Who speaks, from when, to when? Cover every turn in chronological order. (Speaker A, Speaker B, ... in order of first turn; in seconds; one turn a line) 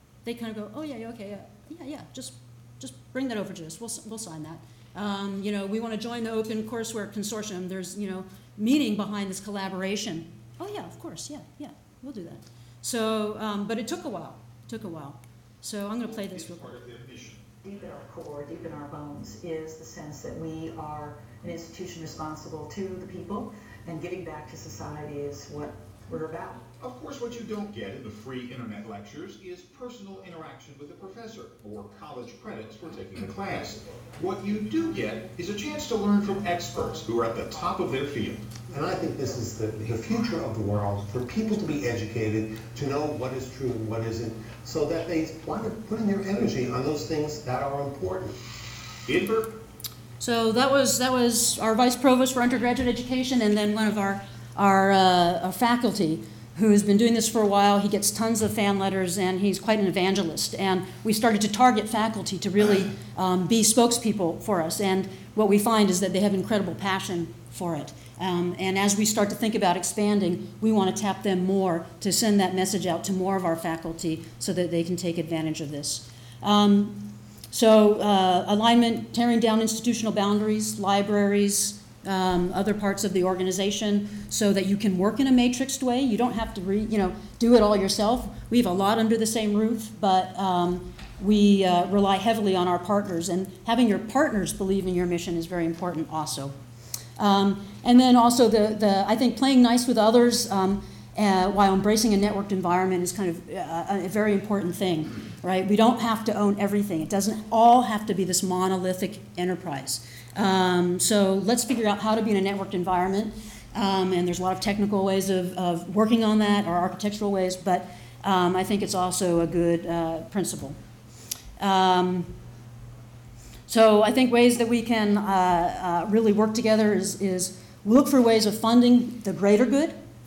Speaker A: 0.2-16.8
Speaker B: 16.1-17.4
Speaker C: 17.6-26.6
Speaker B: 26.8-38.5
Speaker D: 38.7-48.4
Speaker B: 49.1-49.5
Speaker A: 50.2-96.5
Speaker A: 97.2-120.8
Speaker A: 121.6-122.3
Speaker A: 123.7-129.9